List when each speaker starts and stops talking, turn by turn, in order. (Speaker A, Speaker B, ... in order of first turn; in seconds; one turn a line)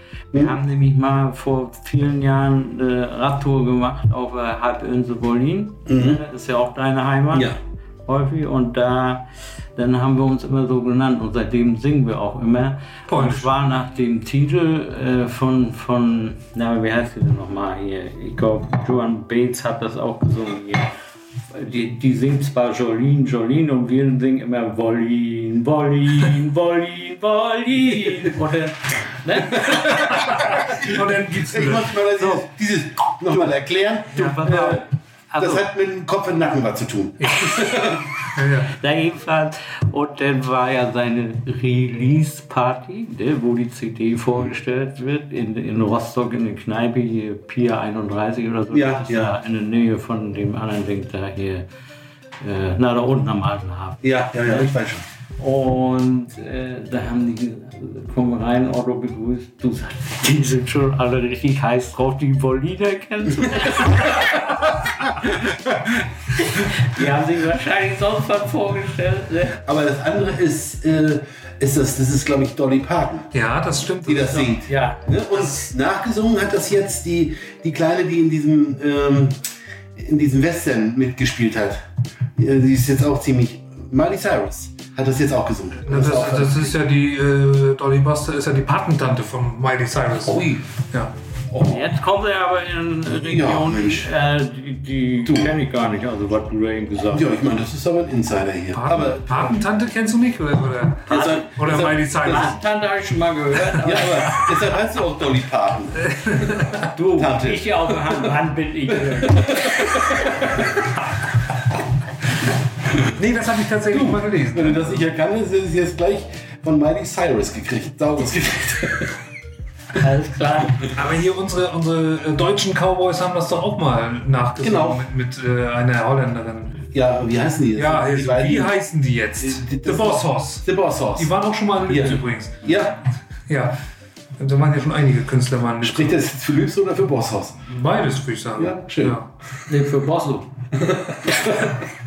Speaker A: 0.3-20.9
Speaker B: 5.9-6.2
Speaker B: 7.3-7.6
Speaker C: 13.1-13.5
Speaker A: 21.5-30.6
Speaker C: 29.9-31.9
Speaker B: 30.5-30.8
Speaker B: 31.4-34.9
Speaker A: 32.2-32.5
Speaker A: 34.1-35.7
Speaker B: 35.4-38.2
Speaker C: 37.2-37.5
Speaker C: 38.3-38.8
Speaker A: 38.7-51.7
Speaker B: 48.7-49.4
Speaker A: 52.4-54.7
Speaker B: 54.0-55.1
Speaker A: 55.4-64.6
Speaker B: 65.5-65.8
Speaker A: 66.4-69.6
Speaker B: 69.6-73.3
Speaker C: 73.3-74.5
Speaker B: 74.0-81.8
Speaker A: 74.3-75.1
Speaker B: 82.4-86.8
Speaker C: 85.8-91.1
Speaker B: 90.3-90.7
Speaker B: 91.5-91.9
Speaker A: 91.7-97.3
Speaker B: 93.1-94.1
Speaker B: 95.2-95.6
Speaker B: 97.0-99.6
Speaker C: 98.7-102.6
Speaker A: 101.1-104.5
Speaker B: 101.1-102.5
Speaker B: 103.8-106.2
Speaker C: 106.2-106.9
Speaker A: 106.9-109.8
Speaker B: 107.1-108.3
Speaker B: 109.2-110.2
Speaker C: 113.0-115.0
Speaker B: 113.9-119.1
Speaker A: 120.0-120.9
Speaker C: 120.9-126.8
Speaker B: 124.6-125.1
Speaker B: 126.9-128.8
Speaker C: 127.8-132.7
Speaker B: 129.4-133.0
Speaker C: 133.5-133.8
Speaker C: 134.4-136.2
Speaker B: 135.8-137.6
Speaker C: 137.7-139.3
Speaker B: 138.6-139.2
Speaker A: 139.7-140.5
Speaker B: 140.8-141.7